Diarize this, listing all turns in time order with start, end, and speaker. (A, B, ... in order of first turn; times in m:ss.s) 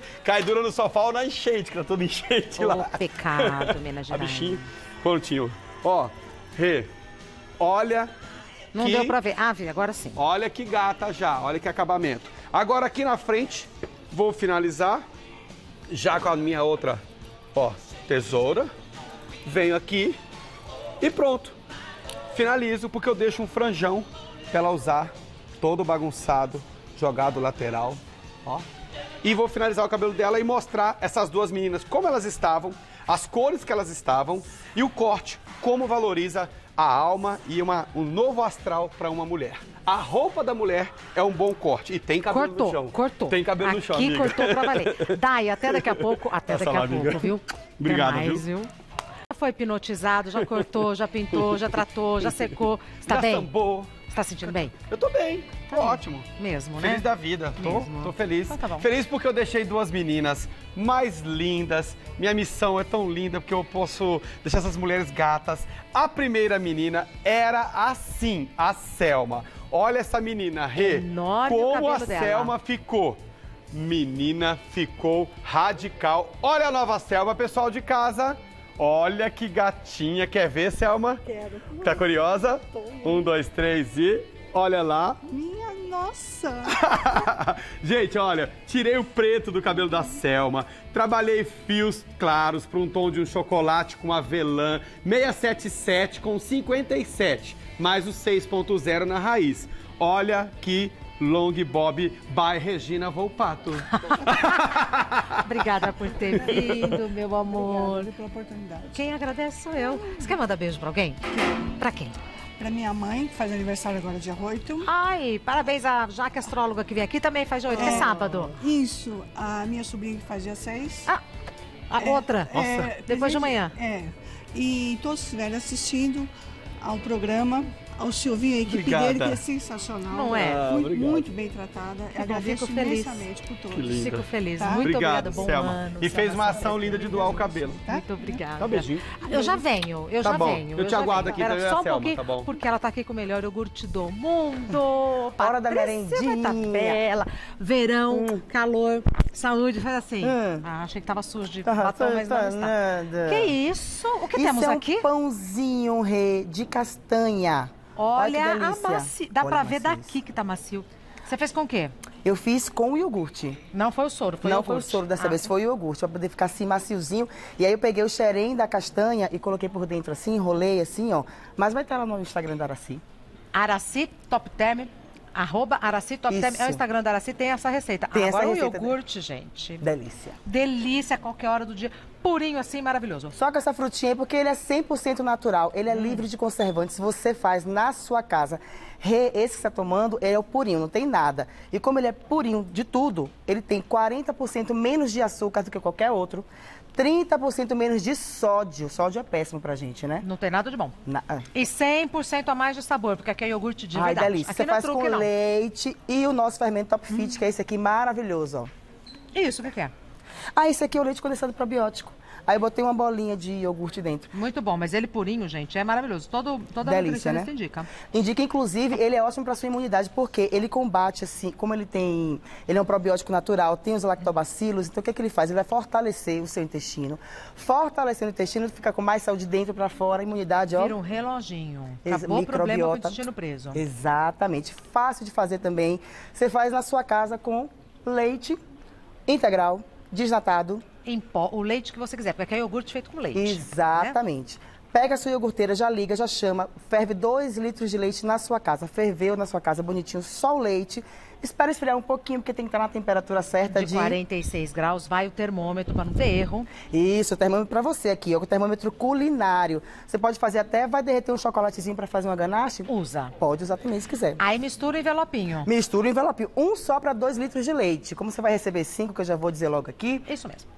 0:00.2-0:06.9 A
0:02.6-0:04.7 B
0:07.6-0:08.1 A
0:08.8-0:10.2 B
0:08.8-0:09.2 A
0:10.2-0:15.0 A
0:15.9-0:17.0 A
0:17.6-0:18.7 A
0:19.4-0:20.2 A
0:21.0-0:21.6 A
0:22.3-0:28.7 A
0:29.2-0:48.4 A
0:42.3-0:48.7 B
0:49.3-0:53.5 B
0:51.4-0:51.7 A
0:52.2-0:52.5 A
0:53.0-0:54.0 A
0:54.1-0:54.7 B
0:54.5-0:56.3 A
0:55.7-0:57.0 B
0:56.8-1:13.2 A
0:57.6-0:58.9 B
1:10.8-1:12.5 B
1:13.7-1:21.2 A
1:21.3-1:22.0 C
1:21.7-1:25.2 A
1:25.3-1:26.7 C
1:26.7-1:45.5 A
1:44.0-1:44.7 B
1:45.3-1:48.1 B
1:46.3-1:49.0 C
1:48.9-1:51.2 B
1:49.8-1:50.3 C
1:51.4-1:51.7 C
1:51.8-1:52.2 B
1:52.6-1:54.9 C
1:54.8-1:58.6 B
1:57.7-2:01.1 C
2:01.9-2:03.8 B
2:02.0-2:06.3 C
2:02.5-2:02.9 A
2:06.8-2:15.7 C
2:08.7-2:09.4 A
2:10.1-2:10.7 B
2:10.4-2:11.3 A
2:12.2-2:13.3 B
2:13.7-2:17.8 A
2:13.9-2:17.3 B
2:16.3-2:18.4 C
2:17.9-2:32.8 B
2:18.6-2:19.2 A
2:20.2-2:22.5 A
2:25.4-2:27.0 D
2:28.1-2:28.4 D
2:30.2-2:30.7 D
2:31.6-2:33.6 D
2:33.3-2:35.1 B
2:34.3-2:40.2 D
2:38.0-2:41.9 B
2:42.2-2:43.6 D
2:43.7-2:45.5 B
2:44.4-2:53.0 D
2:53.5-2:59.9 B
2:56.3-2:56.8 D
2:58.1-2:59.0 D
2:59.8-3:00.4 D
3:00.4-3:03.4 B
3:03.4-3:20.2 D
3:05.9-3:06.2 B
3:20.2-3:21.0 B
3:21.1-3:21.5 D
3:21.5-3:25.3 B
3:23.9-3:28.7 D
3:29.3-3:29.9 B
3:30.6-3:34.3 D
3:34.3-3:37.9 B
3:36.8-3:37.5 D
3:38.0-3:51.0 D
3:50.7-3:53.8 B
3:52.0-3:58.6 D
3:59.3-4:00.8 D
4:01.0-4:04.2 B
4:03.4-4:14.2 D
4:13.7-4:16.7 B
4:16.9-4:24.4 D
4:22.9-4:23.3 B
4:24.4-4:25.7 B
4:25.6-4:30.3 D
4:30.3-4:30.7 B